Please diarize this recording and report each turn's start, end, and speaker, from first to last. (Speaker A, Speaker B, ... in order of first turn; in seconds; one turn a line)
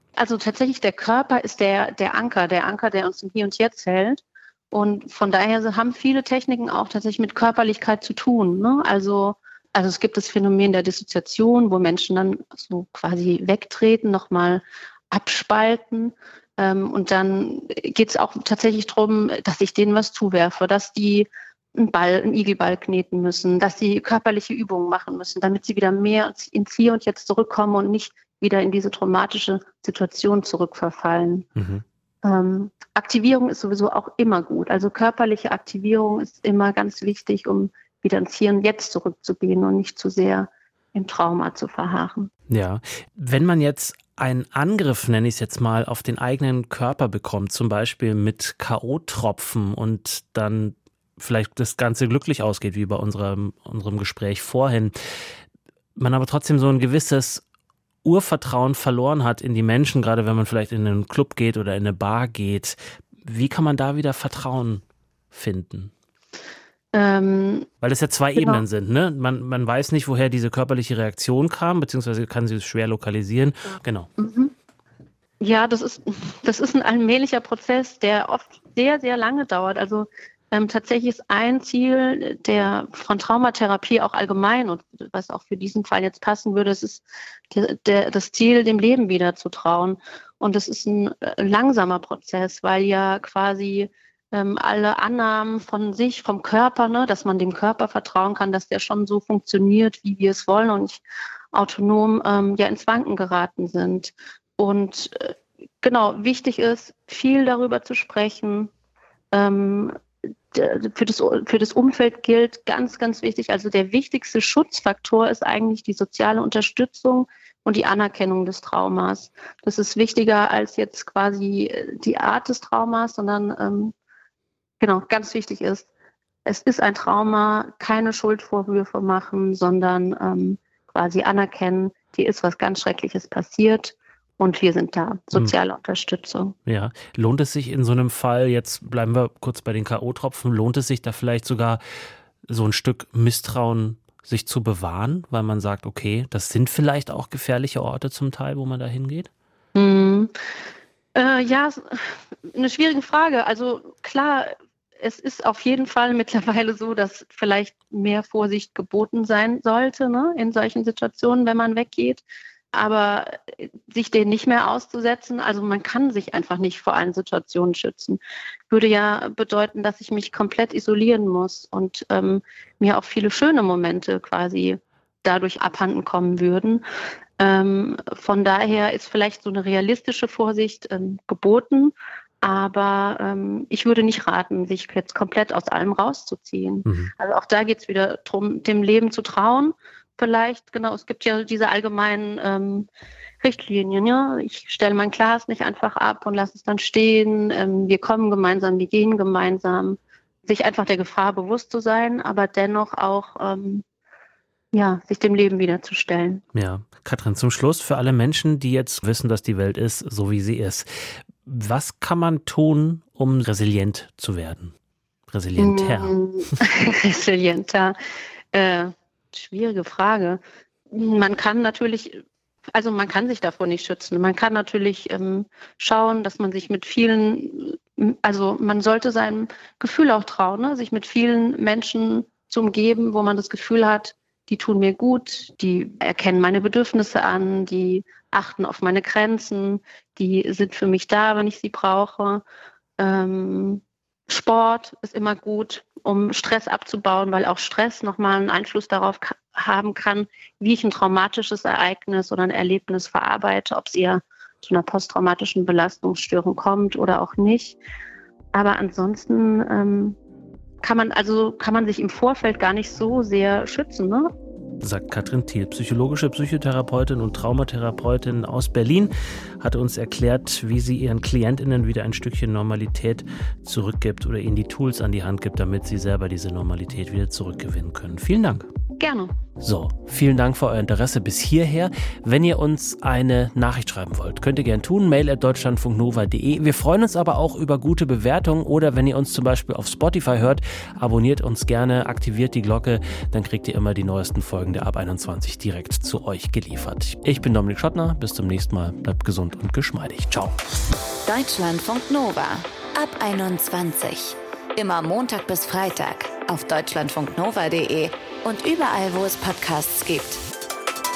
Speaker A: 0.1-31.5
Speaker B: 31.6-31.8
Speaker A: 32.2-42.3
Speaker B: 42.5-54.9
Speaker B: 56.0-57.4
Speaker B: 58.0-65.9
Speaker A: 66.9-67.7
Speaker B: 67.8-74.1
Speaker A: 68.3-68.6
Speaker A: 74.2-74.5
Speaker A: 75.4-108.7
Speaker A: 109.3-109.9
Speaker A: 110.5-123.9
Speaker A: 124.8-125.9
Speaker A: 126.4-136.6
Speaker B: 136.7-141.8
Speaker B: 142.4-149.3
Speaker A: 149.7-150.3
Speaker A: 151.1-176.8
Speaker A: 177.4-192.9
Speaker B: 186.8-187.1
Speaker A: 193.4-203.8
Speaker A: 204.7-206.4
Speaker B: 206.5-214.7
Speaker B: 215.3-216.2
Speaker A: 215.6-217.9
Speaker A: 218.5-220.4
Speaker A: 220.9-242.4
Speaker A: 243.0-257.8
Speaker A: 258.5-260.2
Speaker A: 260.8-264.3
Speaker B: 264.8-278.7
Speaker A: 279.0-279.3
Speaker B: 279.6-300.6
Speaker C: 301.2-310.4